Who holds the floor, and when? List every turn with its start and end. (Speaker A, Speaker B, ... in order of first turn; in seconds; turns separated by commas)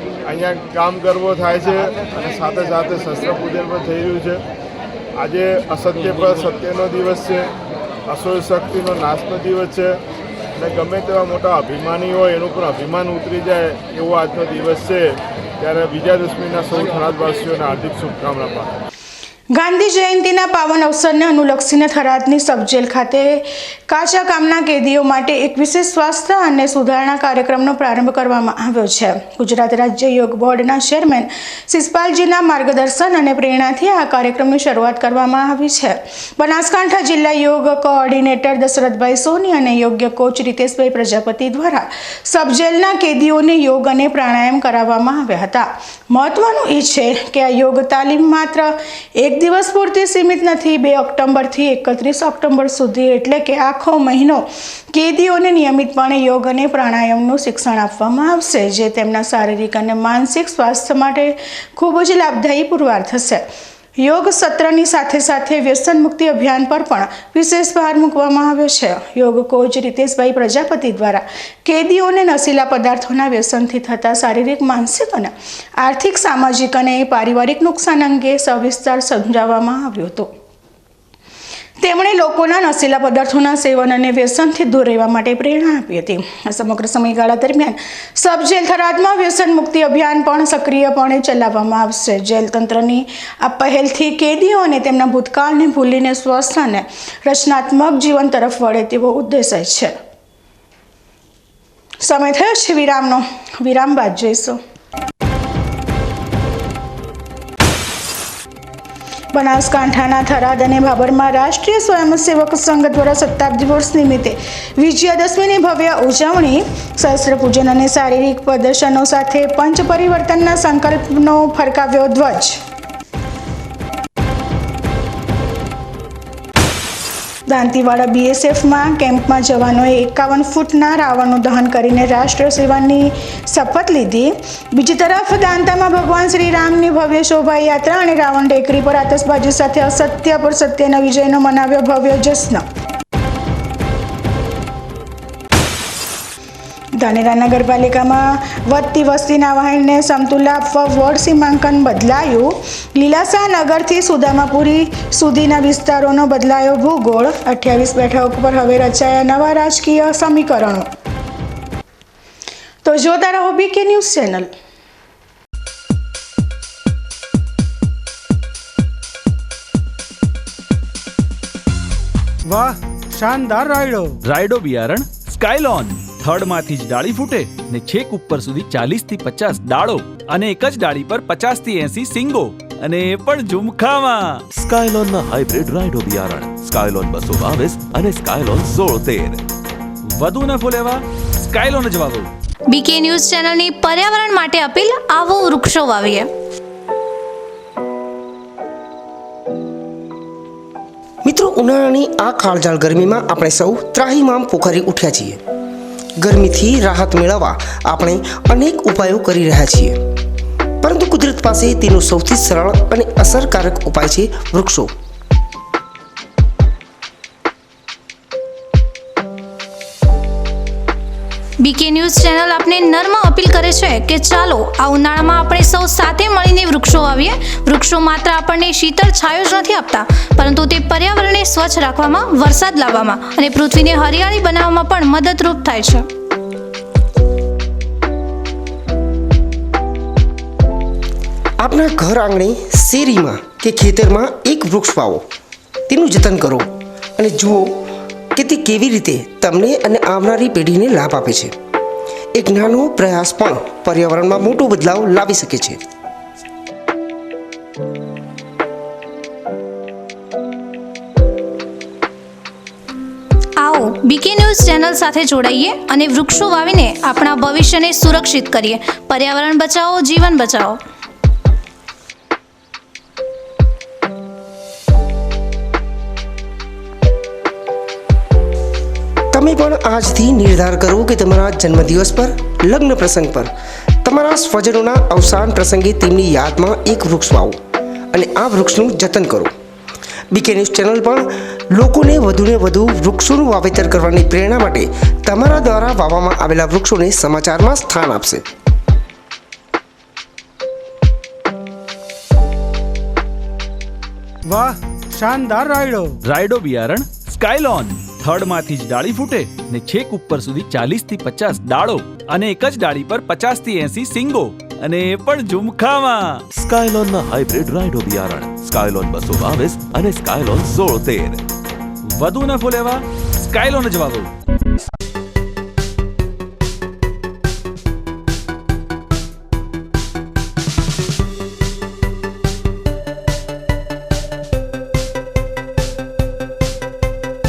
Speaker A: 0.2-4.4, Speaker A: 5.2-7.5, Speaker A: 8.1-10.0, Speaker A: 10.6-18.8, Speaker B: 19.5-63.4, Speaker B: 64.0-80.3, Speaker B: 81.8-99.9, Speaker B: 102.0-104.6, Speaker B: 109.3-122.6, Speaker B: 127.5-142.6, Speaker B: 146.9-160.9, Speaker B: 162.8-164.5, Speaker C: 172.5-174.2, Speaker D: 174.2-184.4, Speaker E: 184.5-189.4, Speaker D: 190.2-192.3, Speaker F: 192.7-196.3, Speaker G: 201.2-205.4, Speaker G: 206.2-210.0, Speaker G: 210.8-214.9, Speaker F: 221.6-236.1, Speaker G: 241.6-245.2, Speaker G: 245.9-247.8, Speaker G: 248.3-251.5, Speaker G: 252.3-255.8, Speaker F: 263.6-270.8, Speaker G: 279.3-283.5, Speaker G: 284.0-287.6, Speaker G: 288.1-289.5, Speaker G: 290.3-298.4, Speaker C: 304.5-306.1, Speaker D: 306.2-316.4, Speaker E: 316.5-321.4, Speaker D: 322.1-324.3